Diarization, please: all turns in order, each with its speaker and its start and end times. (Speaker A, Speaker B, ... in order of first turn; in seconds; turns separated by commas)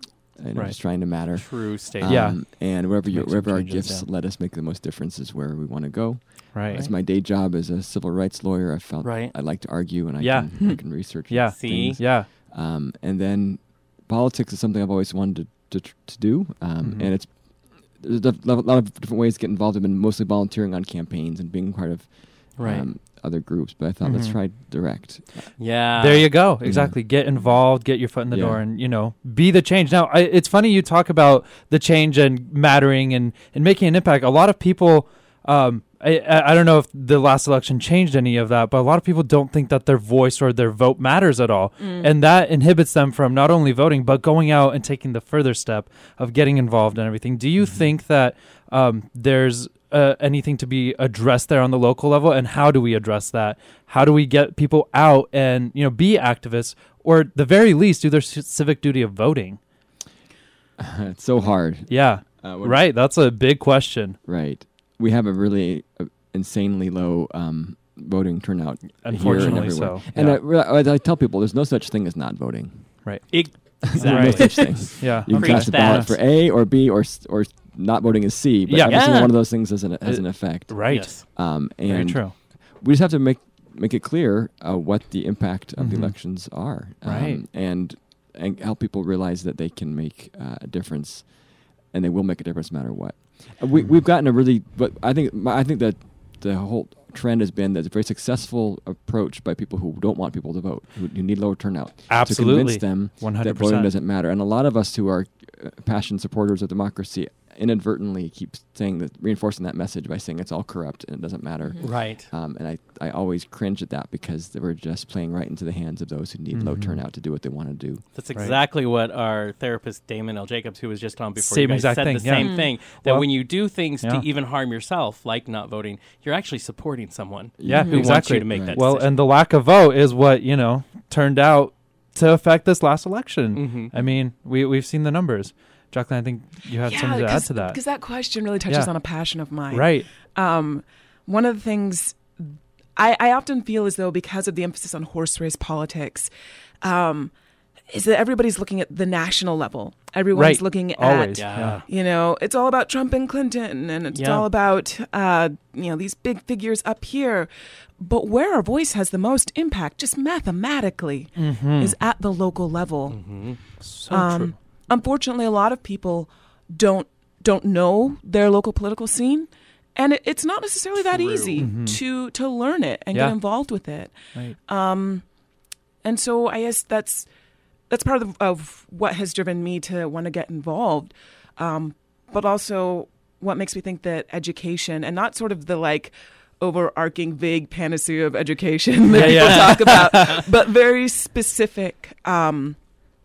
Speaker A: 0.4-25.6, Speaker B: 1.1-2.4, Speaker C: 2.0-4.1, Speaker C: 6.5-6.9, Speaker B: 9.0-9.3, Speaker C: 10.2-12.3, Speaker B: 11.5-12.0, Speaker C: 16.8-17.1, Speaker B: 22.6-22.9, Speaker C: 24.0-24.4, Speaker B: 25.6-26.5, Speaker C: 26.0-59.6, Speaker A: 26.6-27.0, Speaker A: 28.3-28.7, Speaker D: 41.8-42.1, Speaker A: 60.8-63.0, Speaker C: 61.9-64.2, Speaker A: 64.3-73.3, Speaker C: 69.0-70.4, Speaker B: 69.2-70.0, Speaker C: 73.0-76.1, Speaker B: 73.3-76.2, Speaker A: 73.8-118.0, Speaker C: 78.7-82.3, Speaker B: 78.9-79.4, Speaker B: 80.9-81.2, Speaker C: 85.8-87.4, Speaker C: 102.1-103.9, Speaker B: 111.8-112.3, Speaker C: 116.5-117.0, Speaker B: 118.1-129.2, Speaker C: 121.4-124.2, Speaker D: 122.4-122.7, Speaker A: 127.6-128.8, Speaker C: 127.6-137.8, Speaker D: 127.7-128.1, Speaker B: 133.6-133.9, Speaker D: 136.7-146.3, Speaker C: 139.7-140.1, Speaker D: 146.8-147.3, Speaker D: 147.9-163.5, Speaker C: 150.3-151.8, Speaker B: 151.4-151.8, Speaker B: 154.1-154.5, Speaker C: 161.4-162.0, Speaker B: 163.1-163.8, Speaker C: 163.8-164.6, Speaker D: 164.1-175.3, Speaker B: 170.9-171.7, Speaker C: 171.6-172.0, Speaker C: 173.1-173.4, Speaker D: 176.0-177.3, Speaker D: 177.9-192.8, Speaker C: 189.1-190.4, Speaker B: 189.2-190.4